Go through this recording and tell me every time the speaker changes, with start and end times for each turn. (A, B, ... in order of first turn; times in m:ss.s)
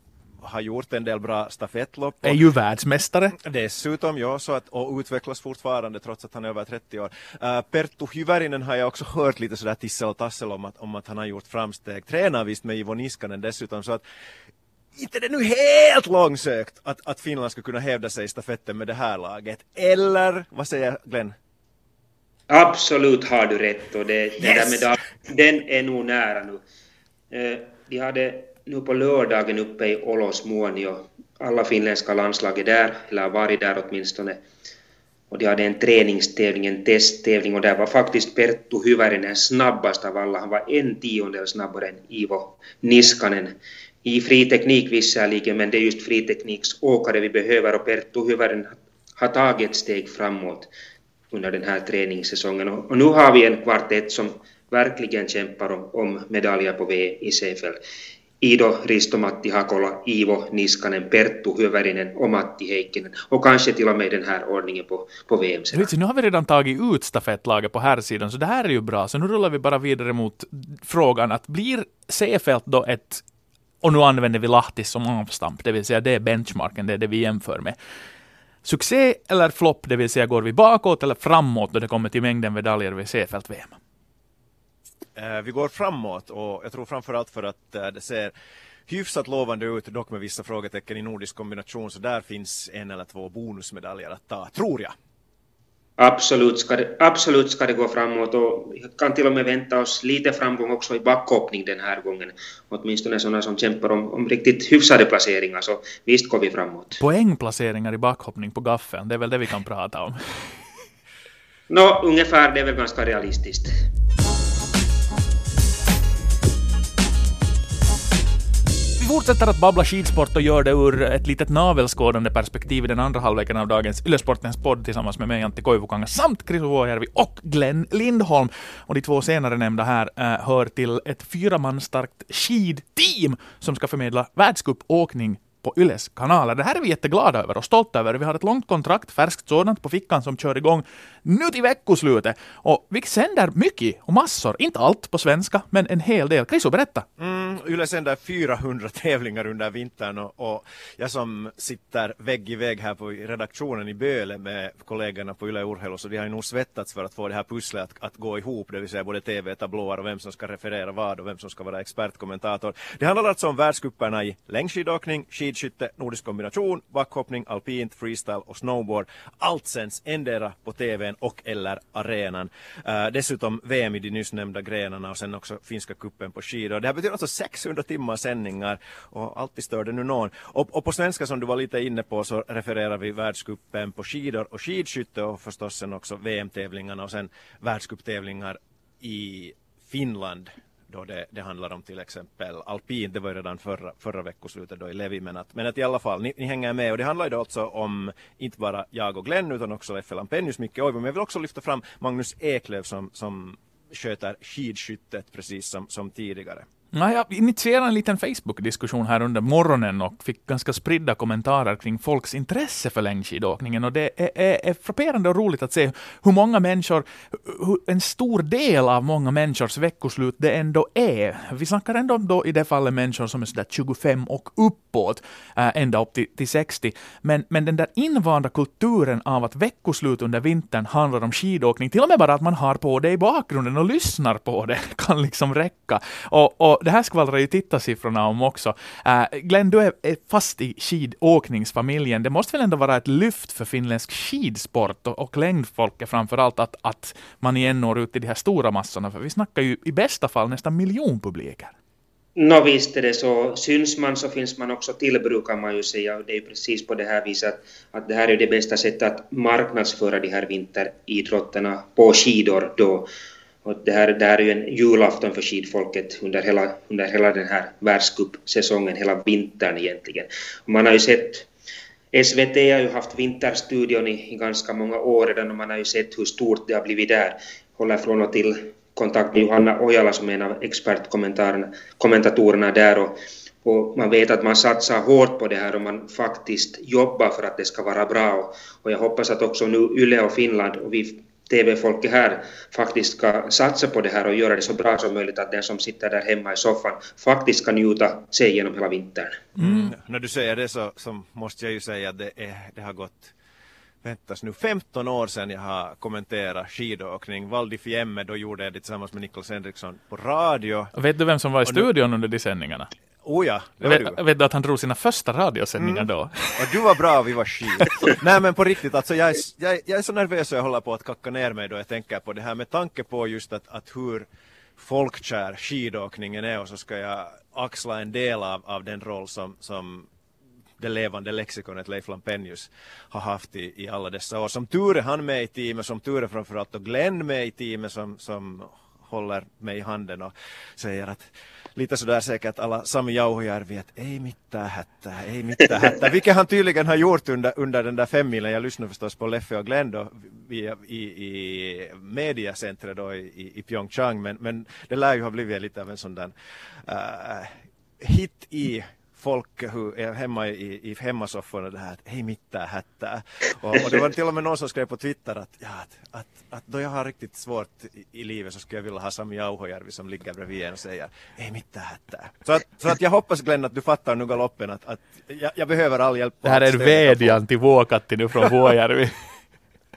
0:00.4-0:02.4 A
0:02.2-0:03.4 B
0:03.4-0:14.0 A
0:15.0-0:21.3 A
0:22.5-0:26.6 C
0:27.3-0:34.4 C
0:35.3-0:50.7 C
0:51.3-0:57.8 C
0:58.4-1:05.9 C
1:05.7-1:13.2 B
1:13.8-1:17.8 B
1:18.6-1:23.8 B
1:25.1-1:28.3 A
1:28.9-1:34.9 A
1:36.0-1:47.0 C
1:47.0-1:50.2 B
1:51.7-1:53.8 C
1:59.0-2:27.0 B
2:27.2-3:26.6 A
3:26.9-4:11.7 B
4:12.4-4:23.1 C
4:23.6-4:31.5 C
4:32.1-4:59.4 C
4:59.6-4:59.9 B
4:59.6-5:03.3 A
5:04.0-5:10.9 A
5:10.9-5:12.9 B
5:13.2-5:14.2 A
5:13.8-5:16.7 B
5:15.8-5:30.1 A
5:30.8-5:56.3 A
5:56.8-6:17.4 A
6:16.4-6:19.1 B